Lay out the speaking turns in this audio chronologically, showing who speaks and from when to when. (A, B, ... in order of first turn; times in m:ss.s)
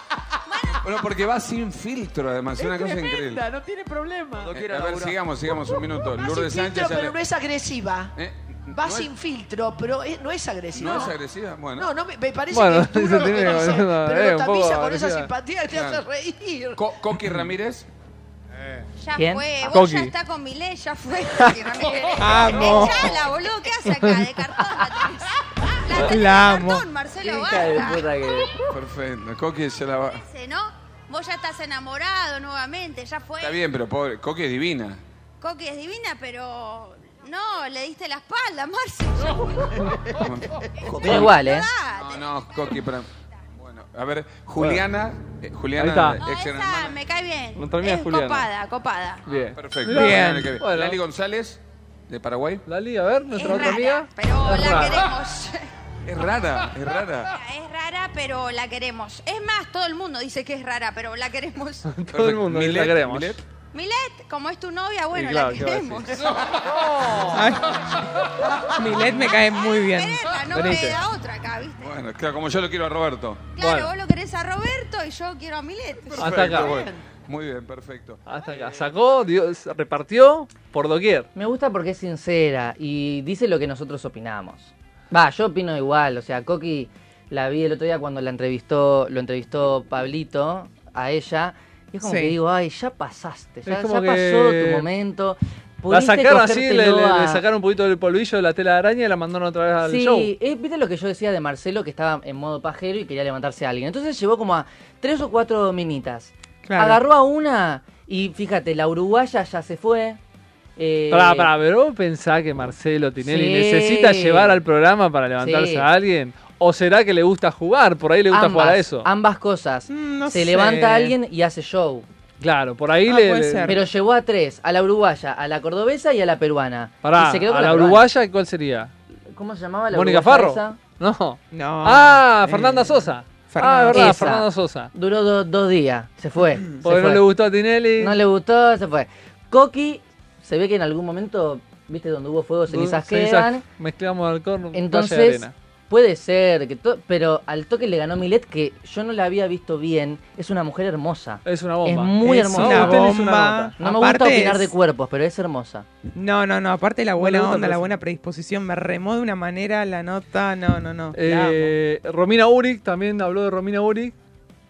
0:00.5-0:00.8 A
0:00.8-0:03.4 B
0:02.6-0:08.1 C
0:04.4-0:07.2 B
0:08.2-0:09.1 B
0:08.7-0:11.2 C
0:10.7-0:11.9 B
0:11.8-0:16.8 C
0:12.5-0:15.3 D
0:15.7-0:16.0 B
0:16.8-0:17.8 B
0:19.0-0:25.3 A
0:19.2-0:19.4 E
0:19.6-0:20.1 D
0:22.2-0:23.2 F
0:25.8-0:28.1 A
0:25.9-0:26.8 F
0:27.2-0:28.6 E
0:28.7-0:30.2 B
0:30.2-0:33.6 A
0:33.4-0:35.0 B
0:35.4-0:39.8 A
0:40.2-0:41.3 B
0:40.9-0:42.6 A
0:40.9-0:41.7 E
0:41.9-0:47.0 B
0:44.6-0:44.8 D
0:45.8-0:46.2 D
0:46.2-0:49.2 A
0:47.6-0:48.5 D
0:49.2-0:51.0 D
0:49.5-0:52.6 B
0:49.9-0:50.5 F
0:52.6-0:55.1 D
0:53.3-0:55.6 A
0:56.0-0:57.3 B
0:57.3-1:01.9 A
1:01.9-1:03.4 D
1:02.1-1:03.4 B
1:03.7-1:06.2 A
1:05.1-1:06.1 D
1:07.0-1:07.4 D
1:07.3-1:07.6 F
1:08.8-1:10.2 F
1:09.5-1:11.9 A
1:10.5-1:11.0 D
1:11.8-1:13.5 B
1:13.6-1:16.4 A
1:13.6-1:13.9 D
1:16.2-1:18.2 B
1:16.2-1:16.8 D
1:18.2-1:21.3 D
1:21.3-1:37.4 E
1:32.0-1:32.3 F
1:33.6-1:34.9 D
1:35.9-1:40.3 D
1:39.8-1:50.2 E
1:46.6-1:47.0 F
1:50.8-1:51.5 E
1:51.1-1:59.1 D
1:53.2-1:54.6 E
1:55.4-1:55.9 E
1:58.3-2:02.0 E
1:59.9-2:01.1 F
2:02.4-2:03.8 D
2:03.1-2:03.8 F
2:03.6-2:08.0 E
2:07.0-2:08.9 D
2:09.3-2:10.8 E
2:09.9-2:14.9 D
2:11.5-2:14.3 F
2:13.9-2:17.2 E
2:16.8-2:18.2 D
2:18.0-2:23.6 E
2:22.7-2:25.5 D
2:24.7-2:33.1 E
2:31.4-2:33.7 D
2:32.5-2:34.7 F
2:33.8-2:35.8 E
2:36.1-2:41.7 F
2:37.2-2:37.9 D
2:37.2-2:37.7 E
2:41.1-2:44.1 D